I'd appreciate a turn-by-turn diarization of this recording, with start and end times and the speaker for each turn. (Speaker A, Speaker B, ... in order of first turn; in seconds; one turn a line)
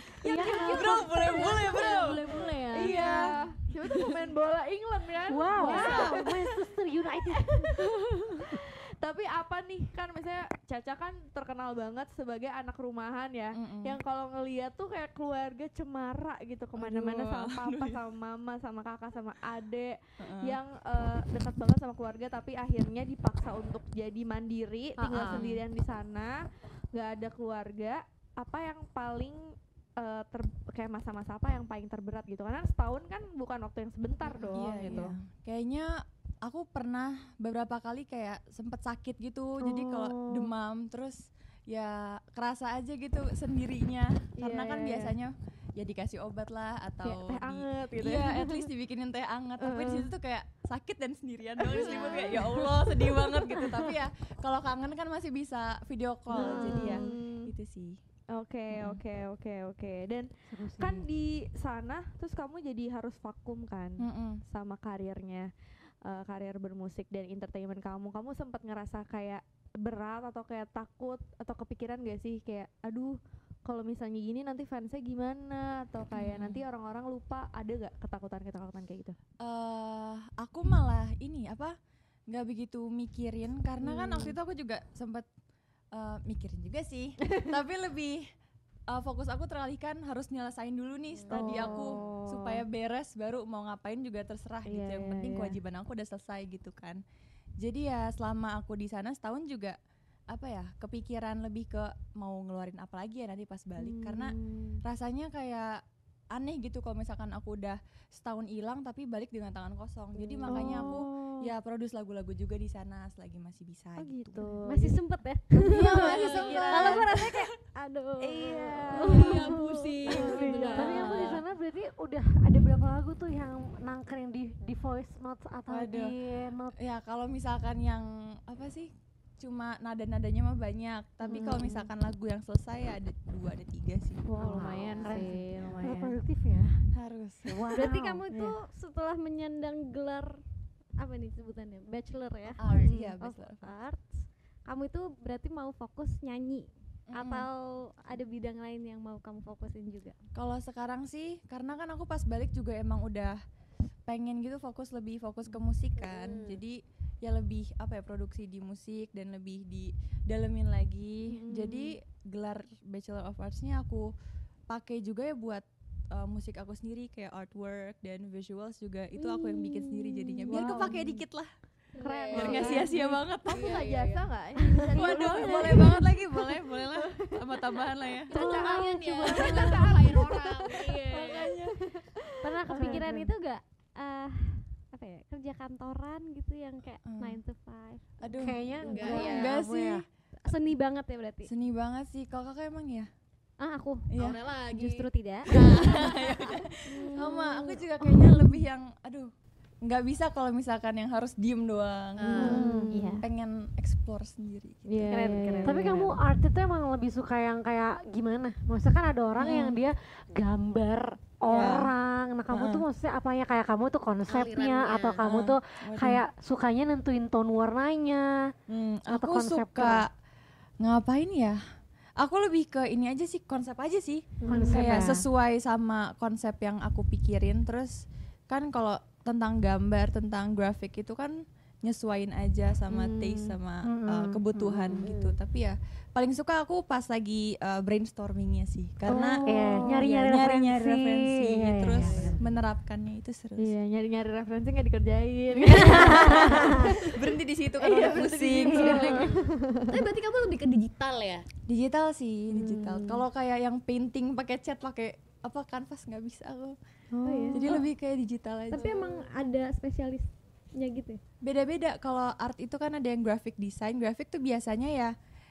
Speaker A: 0.2-1.7
Speaker B: 0.5-0.9
Speaker C: 0.5-3.3
Speaker D: 0.6-3.3
Speaker B: 2.7-6.3
Speaker A: 5.3-7.8
Speaker C: 5.6-6.2
Speaker B: 7.4-35.1
Speaker C: 13.6-14.0
Speaker C: 16.8-18.0
Speaker C: 20.2-20.6
Speaker C: 25.0-25.6
Speaker D: 25.2-25.5
Speaker C: 34.3-58.0
Speaker A: 39.6-40.5
Speaker B: 44.4-45.2
Speaker B: 47.0-48.7
Speaker B: 49.6-50.1
Speaker B: 51.6-53.6
Speaker B: 56.3-57.5
Speaker B: 58.3-65.5
Speaker C: 58.7-59.0
Speaker A: 60.5-61.1
Speaker C: 64.0-64.4
Speaker B: 66.0-79.2
Speaker C: 76.1-76.6
Speaker C: 79.4-81.8
Speaker C: 82.3-85.3
Speaker B: 83.8-84.4
Speaker C: 85.9-88.2
Speaker C: 88.9-97.0
Speaker D: 91.3-91.7
Speaker B: 91.3-92.6
Speaker B: 94.7-95.6
Speaker C: 97.6-99.8
Speaker C: 100.3-105.8
Speaker B: 103.8-104.8
Speaker C: 106.3-114.4
Speaker E: 110.4-110.7
Speaker B: 110.5-111.5
Speaker B: 114.0-115.0
Speaker E: 114.4-121.0
Speaker B: 115.6-117.0
Speaker C: 115.7-117.5
Speaker D: 116.0-116.8
Speaker C: 118.3-119.5
Speaker B: 118.7-119.5
Speaker D: 119.0-121.4
Speaker B: 120.1-121.2
Speaker A: 120.8-126.7
Speaker C: 125.7-126.1
Speaker C: 126.8-134.2
Speaker A: 134.3-136.8
Speaker B: 134.3-136.2
Speaker C: 136.9-137.8
Speaker A: 137.5-138.2
Speaker E: 137.7-140.4
Speaker B: 138.3-138.6
Speaker E: 141.0-150.2
Speaker C: 142.6-143.7
Speaker B: 142.8-143.1
Speaker C: 147.1-147.5
Speaker C: 150.3-153.4
Speaker C: 154.1-164.1
Speaker D: 156.0-156.6
Speaker B: 161.3-161.9
Speaker C: 164.7-171.5
Speaker B: 169.2-171.1
Speaker D: 172.0-172.8
Speaker B: 172.0-177.5
Speaker E: 172.2-172.9
Speaker C: 172.3-173.7
Speaker D: 173.5-175.6
Speaker C: 174.9-178.3
Speaker D: 178.3-181.5
Speaker B: 178.3-182.3
Speaker C: 179.3-180.0
Speaker C: 181.1-181.7
Speaker E: 182.4-188.0
Speaker A: 182.7-183.3
Speaker C: 187.1-187.4
Speaker C: 188.2-188.6
Speaker A: 188.3-190.0
Speaker D: 188.9-189.5
Speaker E: 188.9-189.4
Speaker C: 189.1-190.0
Speaker E: 190.4-191.5
Speaker C: 191.5-193.1
Speaker E: 193.6-194.1
Speaker C: 194.1-194.4
Speaker D: 194.2-196.6
Speaker E: 194.7-195.8
Speaker C: 195.6-199.3
Speaker E: 197.0-197.7
Speaker C: 199.8-202.6
Speaker D: 202.2-202.7
Speaker B: 202.3-203.1
Speaker E: 202.4-203.3
Speaker A: 202.4-202.9
Speaker C: 203.2-205.2
Speaker B: 204.9-206.1
Speaker E: 205.1-205.9
Speaker A: 205.6-218.3
Speaker C: 209.4-209.8
Speaker C: 211.5-211.9
Speaker C: 212.5-212.8
Speaker D: 214.3-215.2
Speaker C: 215.2-216.2
Speaker C: 218.7-220.1
Speaker A: 219.1-220.1
Speaker C: 220.8-221.6
Speaker C: 222.2-243.7
Speaker D: 224.4-224.8
Speaker A: 224.5-225.2
Speaker B: 224.5-224.8
Speaker B: 232.9-233.6
Speaker A: 233.8-235.1
Speaker B: 239.1-239.8
Speaker A: 239.4-242.4
Speaker D: 242.0-242.4
Speaker B: 243.6-247.2
Speaker C: 245.6-249.3
Speaker A: 245.8-246.8
Speaker D: 246.8-247.1
Speaker B: 247.8-249.9
Speaker D: 247.9-251.5
Speaker C: 251.7-256.8
Speaker B: 252.5-253.2
Speaker B: 257.1-257.8
Speaker E: 257.2-257.7
Speaker C: 257.5-259.0
Speaker E: 258.7-261.2
Speaker D: 258.8-259.2
Speaker C: 261.4-265.1